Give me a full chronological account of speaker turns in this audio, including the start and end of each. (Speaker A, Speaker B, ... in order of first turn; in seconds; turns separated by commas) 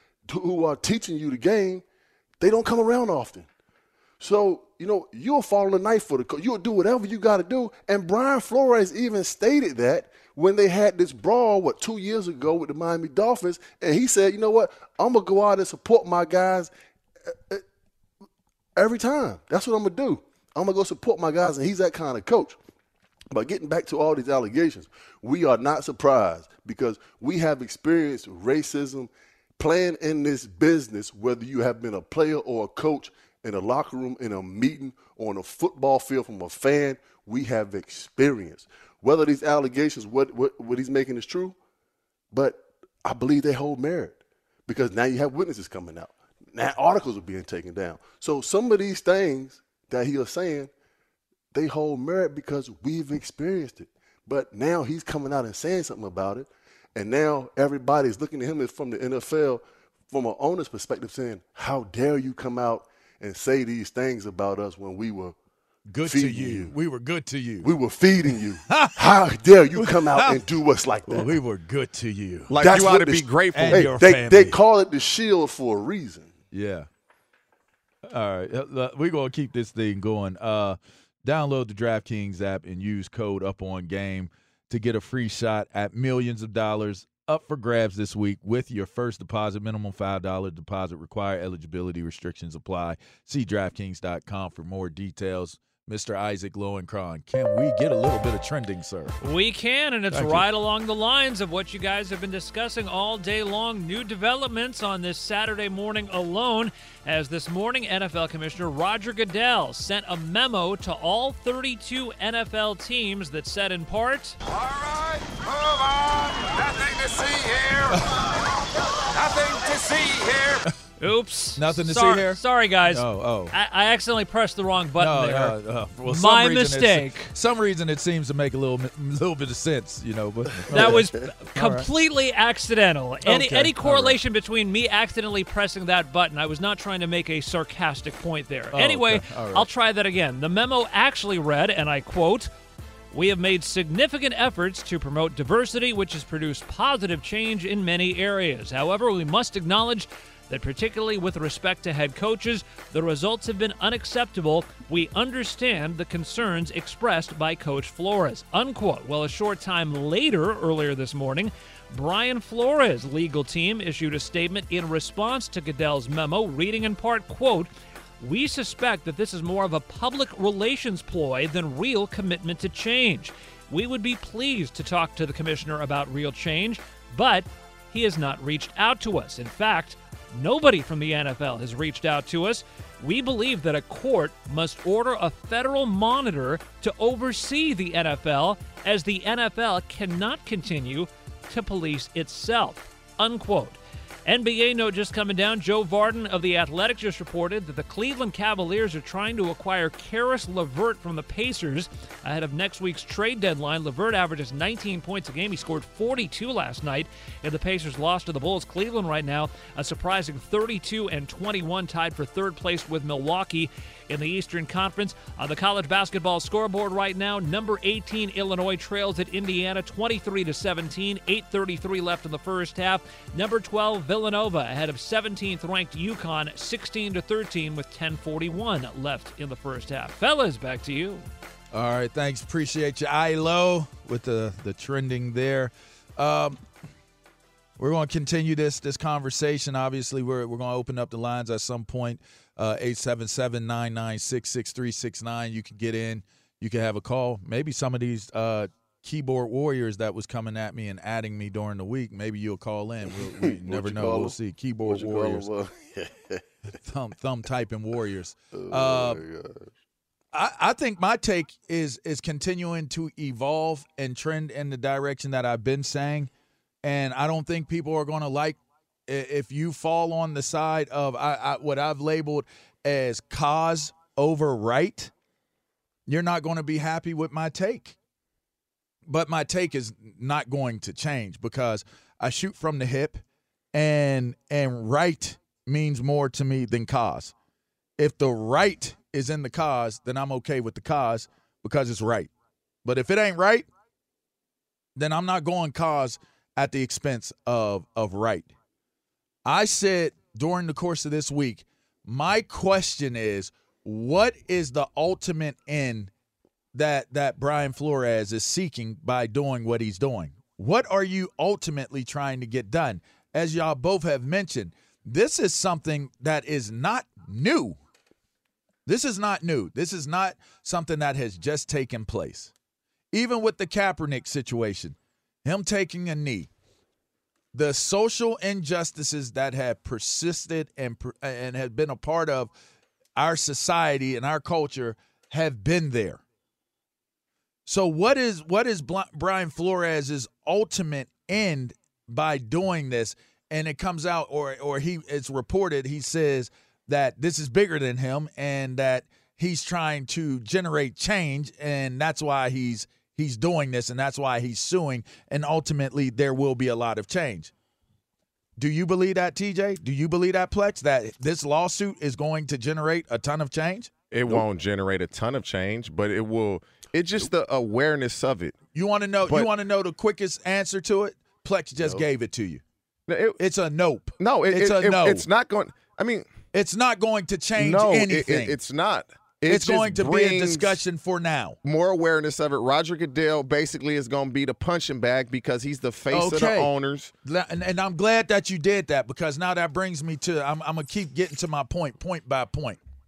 Speaker A: 0.3-1.8, Speaker A: 2.4-3.5, Speaker A: 4.2-16.7, Speaker A: 17.3-17.6, Speaker A: 18.8-22.6, Speaker A: 23.3-41.5, Speaker A: 42.3-50.7, Speaker A: 51.5-65.3, Speaker B: 65.9-67.7, Speaker A: 66.0-66.7, Speaker A: 67.6-71.3, Speaker B: 68.7-69.1, Speaker B: 69.8-70.4, Speaker B: 71.1-72.5, Speaker C: 72.5-73.9, Speaker A: 72.6-76.3, Speaker B: 73.5-74.6, Speaker B: 76.5-76.9, Speaker B: 78.1-99.2, Speaker D: 99.2-114.3, Speaker B: 100.1-100.5, Speaker E: 114.5-118.4, Speaker E: 119.1-120.6, Speaker D: 121.0-127.3, Speaker B: 121.5-123.5, Speaker B: 125.0-131.9, Speaker A: 130.7-131.2, Speaker D: 130.7-142.5, Speaker B: 133.2-134.2, Speaker B: 138.7-139.7, Speaker D: 143.1-167.7, Speaker D: 168.2-231.2, Speaker B: 231.7-236.6, Speaker B: 237.8-255.5, Speaker A: 253.1-256.4, Speaker B: 256.8-259.2, Speaker A: 258.5-259.7, Speaker B: 260.3-266.3, Speaker B: 266.8-275.1, Speaker B: 276.1-277.9, Speaker B: 279.1-283.2, Speaker B: 283.7-287.3, Speaker B: 288.0-292.3, Speaker B: 292.8-293.7, Speaker B: 294.9-298.5, Speaker B: 299.4-306.1, Speaker B: 306.7-317.8, Speaker B: 318.9-322.5, Speaker B: 323.1-326.5, Speaker B: 327.5-332.5, Speaker B: 333.2-336.2, Speaker B: 337.6-357.5, Speaker B: 358.6-363.9, Speaker C: 364.1-368.6, Speaker B: 368.7-372.6, Speaker C: 369.2-369.5, Speaker A: 371.8-372.0, Speaker C: 373.1-373.4, Speaker B: 373.4-375.2, Speaker C: 374.2-376.2, Speaker B: 376.5-378.6, Speaker C: 377.6-380.8, Speaker B: 379.5-381.6, Speaker C: 381.6-387.1, Speaker B: 386.1-386.7, Speaker B: 387.2-392.8